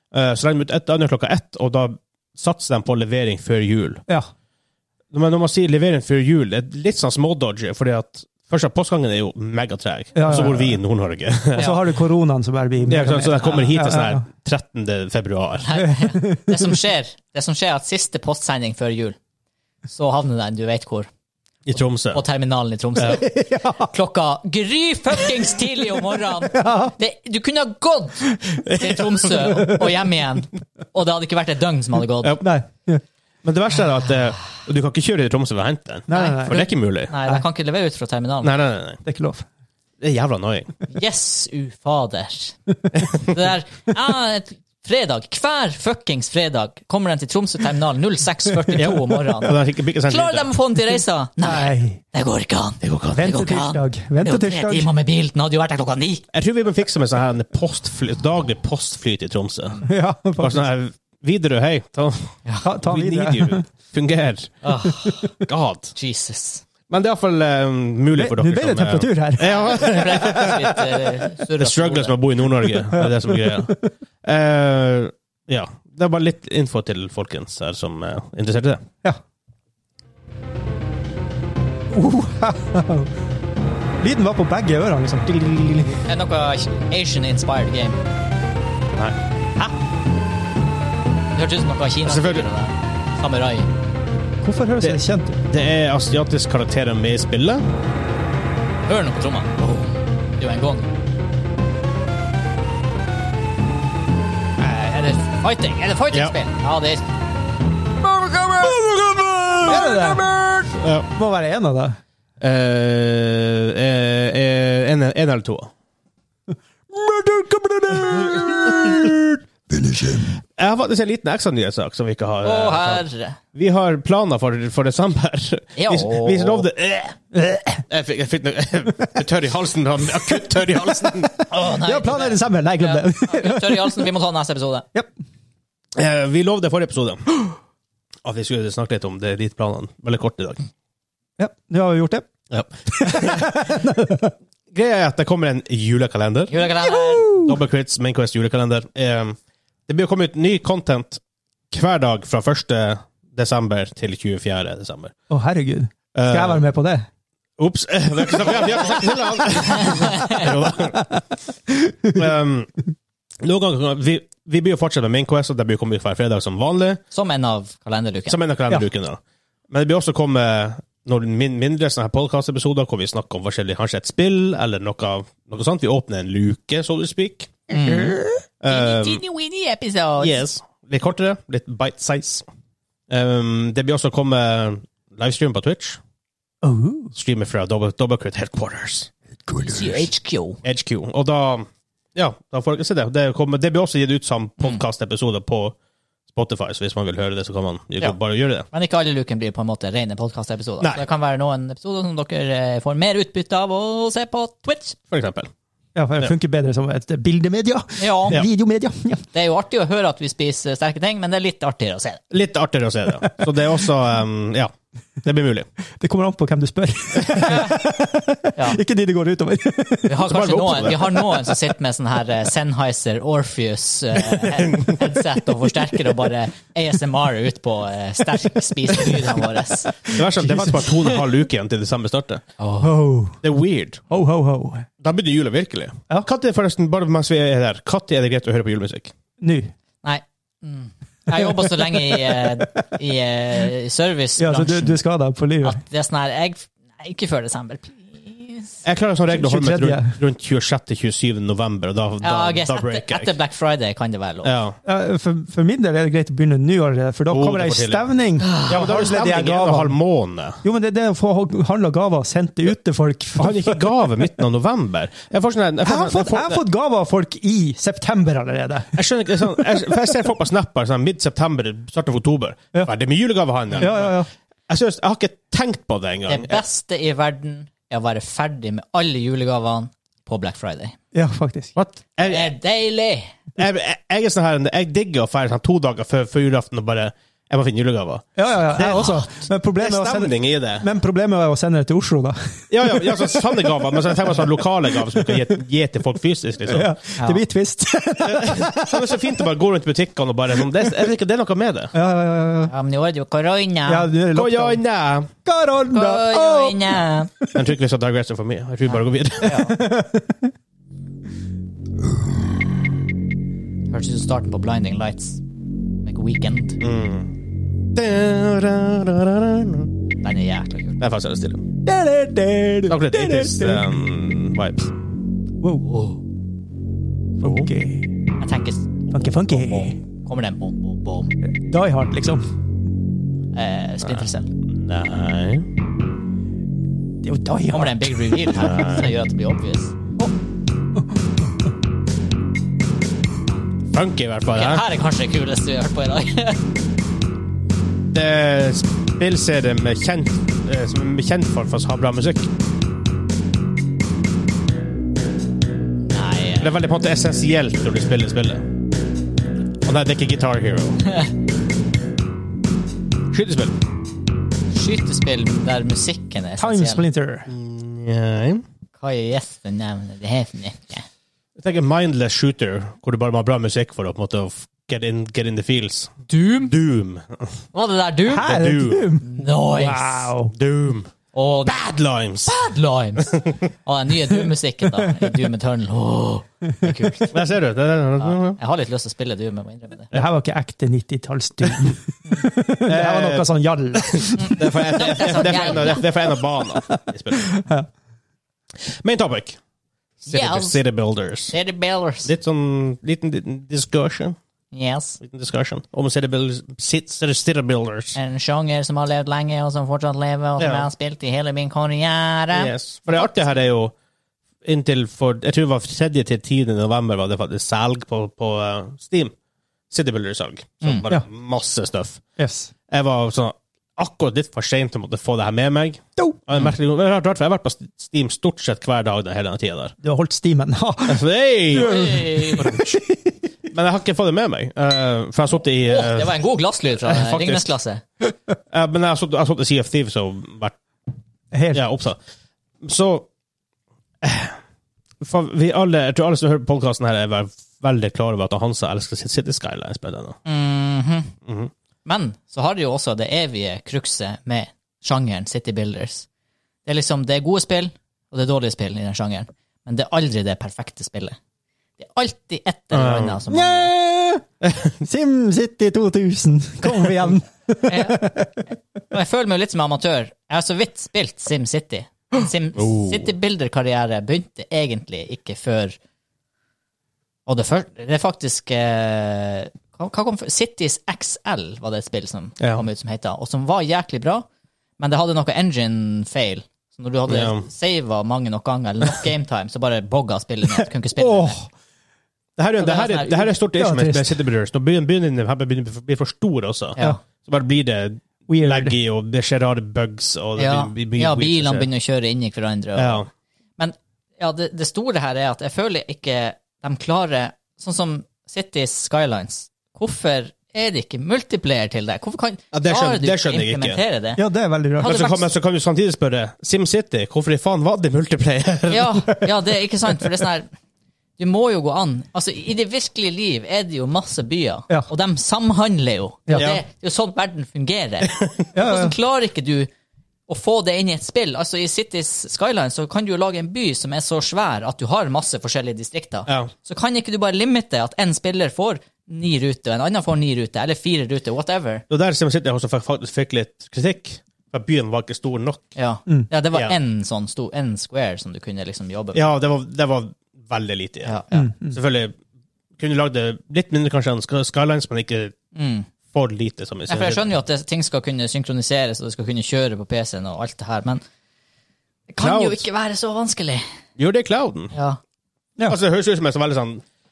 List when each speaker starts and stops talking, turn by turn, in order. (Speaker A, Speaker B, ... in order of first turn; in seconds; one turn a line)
Speaker A: 0.1-4.0
Speaker A: 5.1-11.7
Speaker B: 10.1-10.8
Speaker C: 11.6-11.8
Speaker B: 11.6-14.2
Speaker A: 12.8-15.7
Speaker C: 15.6-19.1
Speaker B: 15.7-16.8
Speaker C: 19.9-21.1
Speaker A: 21.7-22.2
Speaker C: 22.1-32.4
Speaker B: 23.0-23.9
Speaker B: 26.5-26.9
Speaker B: 29.4-30.0
Speaker B: 32.4-33.0
Speaker A: 33.4-37.1
Speaker B: 36.1-36.6
Speaker C: 36.1-38.5
Speaker A: 38.4-39.0
Speaker B: 39.0-39.5
Speaker A: 40.0-40.7
Speaker C: 40.9-42.6
Speaker A: 43.0-43.3
Speaker C: 43.2-56.2
Speaker B: 48.7-49.2
Speaker A: 48.8-50.5
Speaker B: 51.4-52.0
Speaker A: 52.8-53.5
Speaker B: 53.1-54.9
Speaker A: 56.3-59.8
Speaker B: 59.8-60.6
Speaker A: 60.4-64.6
Speaker B: 62.6-63.6
Speaker C: 64.6-65.3
Speaker B: 64.9-65.2
Speaker A: 65.4-65.9
Speaker C: 66.0-66.6
Speaker A: 66.9-70.8
Speaker B: 68.2-69.5
Speaker C: 69.4-72.2
Speaker A: 71.6-78.8
Speaker B: 72.9-73.8
Speaker B: 81.9-83.1
Speaker B: 84.0-86.0
Speaker C: 86.1-88.0
Speaker C: 91.3-93.7
Speaker A: 92.0-92.5
Speaker B: 94.4-95.4
Speaker A: 94.8-97.7
Speaker C: 98.9-100.9
Speaker C: 104.6-107.0
Speaker C: 108.0-108.7
Speaker A: 108.4-111.1
Speaker B: 109.6-110.3
Speaker C: 110.2-110.4
Speaker B: 111.1-112.0
Speaker A: 112.4-115.7
Speaker B: 116.5-120.3
Speaker A: 118.0-119.1
Speaker A: 120.6-127.2
Speaker C: 122.4-123.4
Speaker C: 125.8-126.7
Speaker B: 127.3-127.8
Speaker A: 127.9-131.4
Speaker B: 131.4-134.1
Speaker C: 131.5-134.8
Speaker A: 135.9-137.3
Speaker A: 138.2-140.7
Speaker B: 141.4-142.3
Speaker A: 142.5-143.8
Speaker B: 142.9-144.3
Speaker A: 144.7-146.6
Speaker C: 146.5-147.4
Speaker B: 146.8-147.5
Speaker A: 147.3-155.1
Speaker B: 155.3-157.1
Speaker A: 156.1-156.6
Speaker A: 157.6-161.2
Speaker B: 158.8-159.1
Speaker C: 159.8-160.4
Speaker B: 161.7-162.2
Speaker A: 162.1-162.7
Speaker A: 163.4-167.0
Speaker C: 167.1-168.4
Speaker A: 168.3-177.7
Speaker C: 177.7-180.4
Speaker B: 177.7-178.3
Speaker A: 178.6-179.2
Speaker A: 180.2-182.4
Speaker A: 183.1-186.0
Speaker B: 186.6-187.1
Speaker A: 187.1-189.1
Speaker C: 189.6-190.6
Speaker A: 190.6-195.7
Speaker A: 196.3-198.7
Speaker C: 198.7-205.0
Speaker A: 205.1-205.5
Speaker B: 205.9-209.2
Speaker C: 208.0-208.4
Speaker C: 209.3-212.2
Speaker A: 212.3-215.7
Speaker B: 216.0-220.3
Speaker C: 217.5-217.7
Speaker C: 218.6-218.8
Speaker C: 220.1-230.2
Speaker A: 220.2-221.2
Speaker A: 224.7-225.0
Speaker A: 230.0-232.4
Speaker B: 230.2-230.9
Speaker C: 232.6-232.9
Speaker B: 232.8-233.4
Speaker A: 233.4-234.0
Speaker B: 234.1-234.9
Speaker A: 235.0-239.1
Speaker B: 239.4-239.7
Speaker C: 240.0-245.0
Speaker B: 241.3-242.8
Speaker B: 244.4-245.8
Speaker C: 245.6-248.8
Speaker A: 248.8-253.3
Speaker B: 249.3-250.2
Speaker C: 252.2-254.5
Speaker A: 254.4-254.8
Speaker B: 254.8-259.9
Speaker A: 257.3-258.1
Speaker C: 258.4-258.8
Speaker A: 258.6-260.6
Speaker B: 260.6-263.8
Speaker A: 263.4-266.6
Speaker B: 265.8-269.0
Speaker A: 268.9-274.2
Speaker B: 269.5-269.8
Speaker B: 273.8-274.3
Speaker A: 274.7-276.6
Speaker C: 276.3-280.9
Speaker B: 281.1-281.7
Speaker A: 281.8-282.5
Speaker C: 282.2-283.3
Speaker A: 283.6-290.9
Speaker B: 288.4-294.4
Speaker A: 292.7-296.9
Speaker B: 295.0-295.4
Speaker B: 296.6-299.3
Speaker C: 297.2-297.4
Speaker A: 298.2-301.9
Speaker B: 301.9-302.7
Speaker C: 302.7-304.1
Speaker B: 303.9-304.8
Speaker A: 304.3-305.3
Speaker B: 305.4-307.5
Speaker C: 305.9-307.3
Speaker A: 307.5-309.6
Speaker C: 308.9-309.7
Speaker B: 309.4-310.5
Speaker C: 313.9-315.4
Speaker C: 316.0-316.8
Speaker A: 316.8-317.3
Speaker A: 317.9-319.9
Speaker C: 320.2-321.0
Speaker A: 321.0-321.6
Speaker B: 321.8-324.0
Speaker A: 322.9-324.9
Speaker B: 325.6-326.0
Speaker C: 325.9-326.2
Speaker B: 327.4-328.1
Speaker A: 327.4-327.7
Speaker C: 328.4-331.3
Speaker B: 329.1-330.0
Speaker B: 331.4-332.4
Speaker C: 333.5-334.5
Speaker A: 334.0-335.7
Speaker B: 337.2-338.8
Speaker C: 337.7-339.9
Speaker A: 338.5-339.1
Speaker A: 343.9-344.8
Speaker C: 344.5-346.6
Speaker A: 348.1-352.5
Speaker C: 356.1-356.8
Speaker A: 356.6-358.6
Speaker A: 359.8-361.2
Speaker A: 363.3-363.7
Speaker C: 364.7-367.0
Speaker B: 366.6-367.5
Speaker A: 367.5-368.6
Speaker C: 369.0-371.1
Speaker A: 371.6-377.6
Speaker C: 376.3-376.7
Speaker C: 377.7-378.6
Speaker B: 378.3-380.5
Speaker A: 378.4-379.1
Speaker C: 379.2-380.3
Speaker A: 380.5-381.1
Speaker C: 381.3-381.8
Speaker A: 381.6-382.6
Speaker C: 382.4-387.4
Speaker A: 383.2-383.6
Speaker B: 386.8-387.1
Speaker A: 387.3-388.6
Speaker C: 388.2-390.1
Speaker B: 390.1-394.7
Speaker A: 392.8-397.5
Speaker C: 394.4-396.0
Speaker B: 397.4-397.9
Speaker A: 398.8-399.6
Speaker A: 400.2-401.5
Speaker C: 400.2-400.8
Speaker C: 401.5-402.3
Speaker A: 402.2-404.4
Speaker C: 404.7-405.2
Speaker A: 405.2-408.2
Speaker C: 408.1-413.4
Speaker A: 410.6-410.9
Speaker A: 412.5-413.9
Speaker A: 414.6-419.3
Speaker A: 419.9-422.2
Speaker B: 422.4-422.7
Speaker A: 422.9-429.9
Speaker B: 430.0-433.4
Speaker A: 431.1-432.9
Speaker C: 431.7-432.7
Speaker A: 433.7-436.4
Speaker C: 435.8-438.0
Speaker A: 437.0-437.6
Speaker A: 438.7-440.8
Speaker B: 441.5-441.8
Speaker A: 441.7-442.2
Speaker A: 442.8-443.3
Speaker A: 444.2-444.6
Speaker A: 445.2-450.4
Speaker C: 450.4-451.3
Speaker A: 451.4-451.7
Speaker C: 452.0-456.2
Speaker C: 456.9-461.4
Speaker C: 462.0-463.9
Speaker A: 462.9-463.4
Speaker B: 463.5-464.4
Speaker A: 464.6-464.9
Speaker B: 465.0-468.6
Speaker C: 467.8-468.3
Speaker C: 469.1-476.0
Speaker A: 472.8-473.3
Speaker C: 477.4-484.4
Speaker C: 485.0-491.6
Speaker A: 487.3-487.7
Speaker B: 491.2-491.7
Speaker A: 492.6-501.9
Speaker C: 492.8-493.5
Speaker B: 493.8-494.4
Speaker B: 498.5-498.9
Speaker C: 500.6-503.2
Speaker A: 502.9-503.3
Speaker C: 503.8-514.4
Speaker A: 512.7-514.0
Speaker B: 514.4-515.2
Speaker C: 515.0-515.5
Speaker A: 515.0-519.1
Speaker C: 518.9-520.7
Speaker C: 521.4-529.9
Speaker A: 526.6-526.8
Speaker B: 528.7-529.1
Speaker C: 530.5-542.0
Speaker A: 542.1-545.9
Speaker C: 546.0-549.4
Speaker A: 549.3-552.3
Speaker C: 551.2-551.7
Speaker B: 551.5-552.0
Speaker A: 553.0-555.5
Speaker C: 555.7-556.1
Speaker A: 556.3-557.5
Speaker C: 557.1-561.2
Speaker C: 562.3-563.8
Speaker A: 562.4-562.8
Speaker A: 564.2-564.9
Speaker C: 564.9-565.2
Speaker A: 565.9-567.0